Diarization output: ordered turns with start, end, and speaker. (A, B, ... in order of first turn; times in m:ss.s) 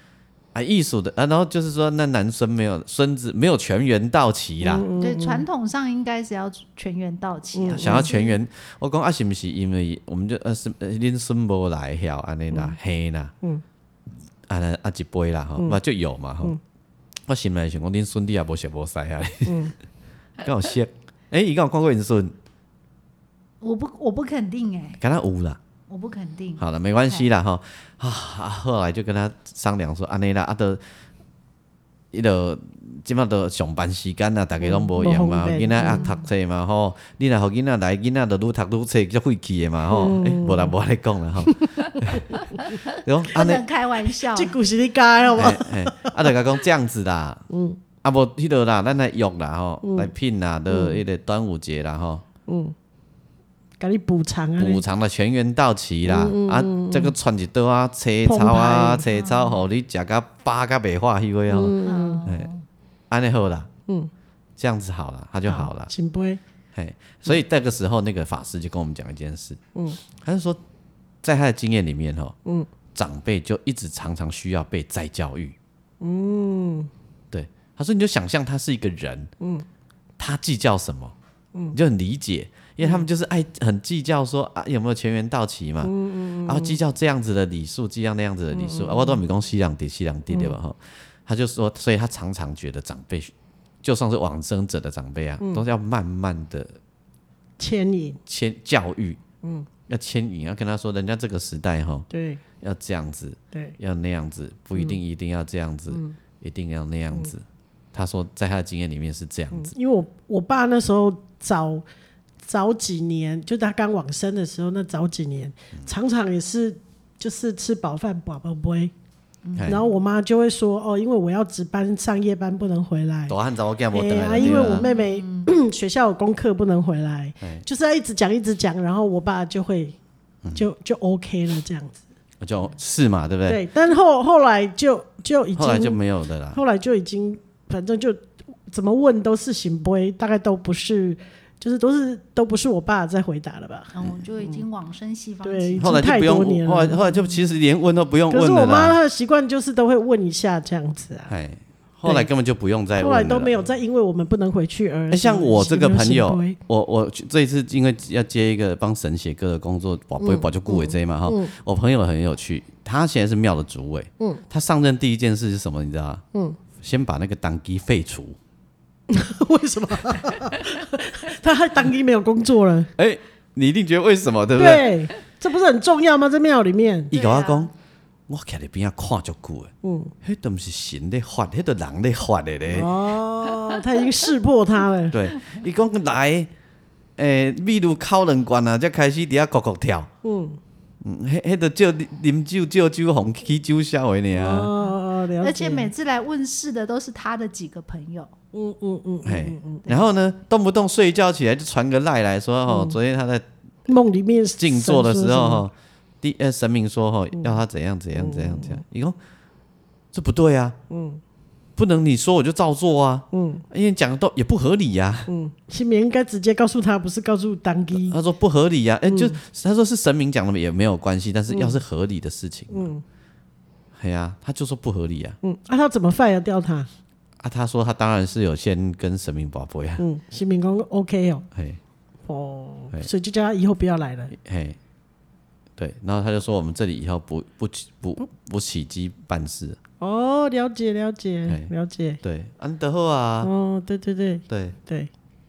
0:00.5-0:04.8 A
0:04.6-0:05.4 B
0:05.0-0:08.4 C
0:07.5-0:08.1 B
0:07.7-0:13.3 A
0:14.5-0:16.6 A
0:17.3-0:19.7 A
0:19.4-0:19.7 B
0:20.4-0:22.3 A
0:23.6-0:25.0 C
0:25.0-0:25.6 A
0:25.9-0:27.3 C
0:26.6-0:30.8 A
0:32.1-0:42.2 A
0:34.7-0:36.1 B
0:35.8-0:36.3 C
0:39.9-0:40.7 B
0:42.3-0:44.5 C
0:43.0-0:43.6 A
0:44.3-0:46.4 B
0:45.3-0:47.4 A
0:47.5-0:47.8 B
0:48.0-0:52.2 A
0:49.8-0:50.1 B
0:50.7-0:51.0 B
0:52.5-0:52.7 B
0:53.8-0:54.8 B
0:54.6-1:02.5 A
0:56.0-0:57.1 B
0:58.2-0:59.0 B
0:59.1-0:59.6 C
1:01.5-1:02.2 B
1:01.8-1:02.6 C
1:03.1-1:03.7 A
1:04.6-1:05.9 A
1:05.5-1:06.4 B
1:06.7-1:09.6 A
1:10.1-1:10.6 A
1:11.2-1:12.3 A
1:12.9-1:15.6 A
1:16.0-1:16.9 B
1:17.3-1:19.3 A
1:20.2-1:21.1 A
1:21.7-1:36.8 A
1:22.8-1:23.0 B
1:25.8-1:26.8 B
1:28.5-1:29.2 B
1:30.3-1:30.6 B
1:37.6-1:38.2 B
1:38.3-1:39.2 A
1:39.4-1:39.7 B
1:39.9-1:42.1 A
1:42.1-1:42.4 B
1:42.6-1:49.7 A
1:45.9-1:46.2 B
1:49.5-1:51.8 B
1:52.4-1:58.9 B
1:59.4-1:59.9 C
1:59.6-1:59.8 A
1:59.6-2:03.4 B
2:03.3-2:04.8 A
2:03.9-2:09.9 B
2:04.4-2:05.5 C
2:10.5-2:12.0 B
2:12.4-2:13.6 A
2:13.5-2:16.0 B
2:15.6-2:16.6 A
2:16.5-2:23.9 B
2:23.9-2:25.9 C
2:25.4-2:27.0 B
2:25.8-2:29.0 A
2:28.3-2:31.3 B
2:31.3-2:33.5 A
2:33.0-2:36.6 B
2:35.1-2:46.2 A
2:40.2-2:41.5 B
2:46.8-2:48.4 A
2:49.1-2:52.9 B
2:53.0-2:54.9 A
2:54.6-2:57.1 B
2:57.1-2:57.7 A
2:57.1-2:57.7 C
2:58.3-2:59.7 A
2:59.8-3:00.1 B
3:00.2-3:02.9 A
3:02.7-3:05.2 B
3:05.1-3:06.5 A
3:07.2-3:10.1 A
3:10.2-3:10.6 B
3:11.0-3:14.7 A
3:14.3-3:15.9 B
3:15.4-3:18.3 C
3:18.5-3:19.8 B
3:19.2-3:23.4 A
3:22.7-3:23.0 B
3:23.9-3:25.6 B
3:24.6-3:29.2 A
3:28.1-3:28.8 B
3:30.1-3:30.8 A
3:30.9-3:31.2 B
3:31.8-3:35.3 A
3:33.3-3:33.6 B
3:35.3-3:38.2 B
3:38.0-3:42.9 A
3:39.1-3:39.4 B
3:41.5-3:41.8 B
3:42.7-3:43.0 B
3:43.9-3:45.4 A
3:45.4-3:46.9 B
3:47.4-3:50.0 A
3:50.0-3:51.4 B
3:52.3-3:54.3 B
3:54.3-3:54.8 A
3:55.8-3:59.8 A
4:00.0-4:02.2 B
4:02.2-4:03.5 A
4:03.4-4:05.1 B
4:04.5-4:04.8 A